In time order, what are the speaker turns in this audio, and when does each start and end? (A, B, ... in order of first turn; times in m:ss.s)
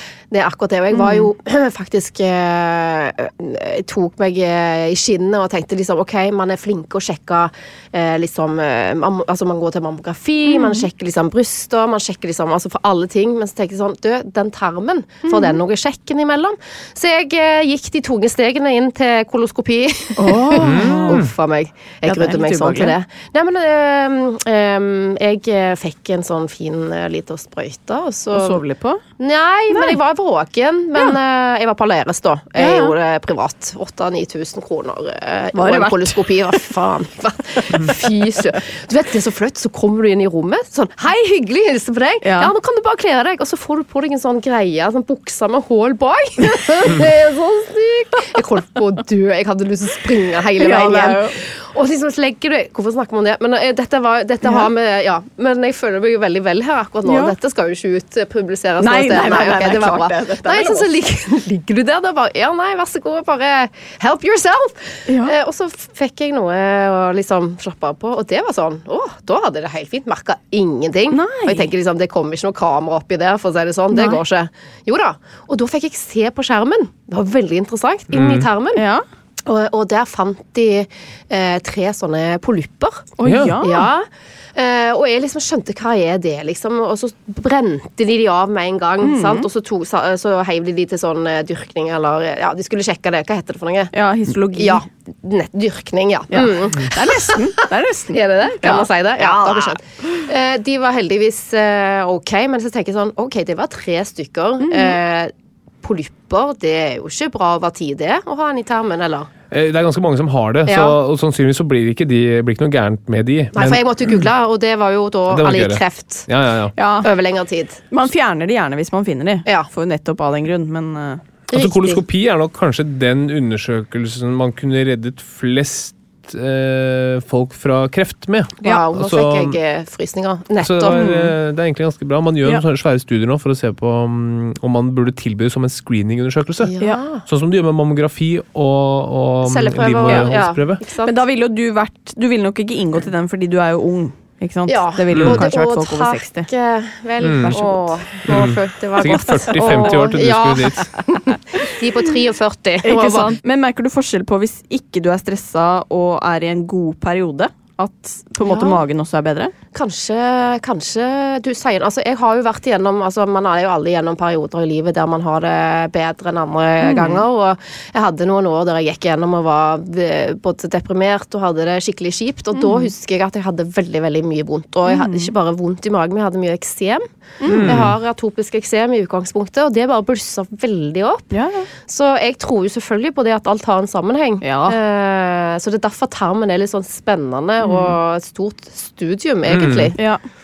0:00.3-0:28.6 A
0:10.5-0:10.8 B
0:15.3-0:15.6 B
0:20.2-0:21.2 B
0:20.6-0:21.3 C
0:22.1-0:22.9 B
0:28.3-0:29.0 B
0:29.2-1:18.8 A
0:32.6-0:32.9 B
0:35.6-0:36.7 B
0:42.2-0:42.5 B
0:50.6-0:51.3 B
0:57.1-0:57.3 B
0:58.8-1:00.9 B
1:11.1-1:11.7 B
1:18.1-1:18.4 C
1:19.5-1:23.1 A
1:23.2-1:23.8 B
1:23.2-1:23.6 C
1:23.6-1:33.9 A
1:29.0-1:29.5 B
1:33.9-1:34.8 B
1:34.6-1:49.3 A
1:36.3-1:39.8 B
1:44.7-1:44.9 B
1:49.5-1:53.8 C
1:50.6-1:51.0 A
1:53.5-1:56.3 A
1:55.3-1:56.8 C
1:56.8-1:57.0 B
1:57.0-1:57.8 A
1:57.9-2:01.2 B
1:59.4-1:59.7 A
2:01.5-2:02.0 A
2:01.5-2:09.6 C
2:08.6-2:11.3 A
2:10.6-2:16.7 C
2:16.6-2:17.2 A
2:17.3-2:20.8 C
2:19.4-2:21.2 A
2:21.0-2:26.5 B
2:24.7-2:30.9 A
2:25.1-2:25.5 C
2:27.2-2:27.6 C
2:27.5-2:27.8 B
2:28.3-2:30.9 C
2:31.6-2:33.4 A
2:32.8-2:39.5 B
2:38.4-2:38.8 A
2:39.7-2:57.1 A
2:46.8-2:47.2 B
2:57.5-2:58.0 C
2:57.6-3:01.3 A
3:01.8-3:10.0 A
3:09.5-3:09.9 C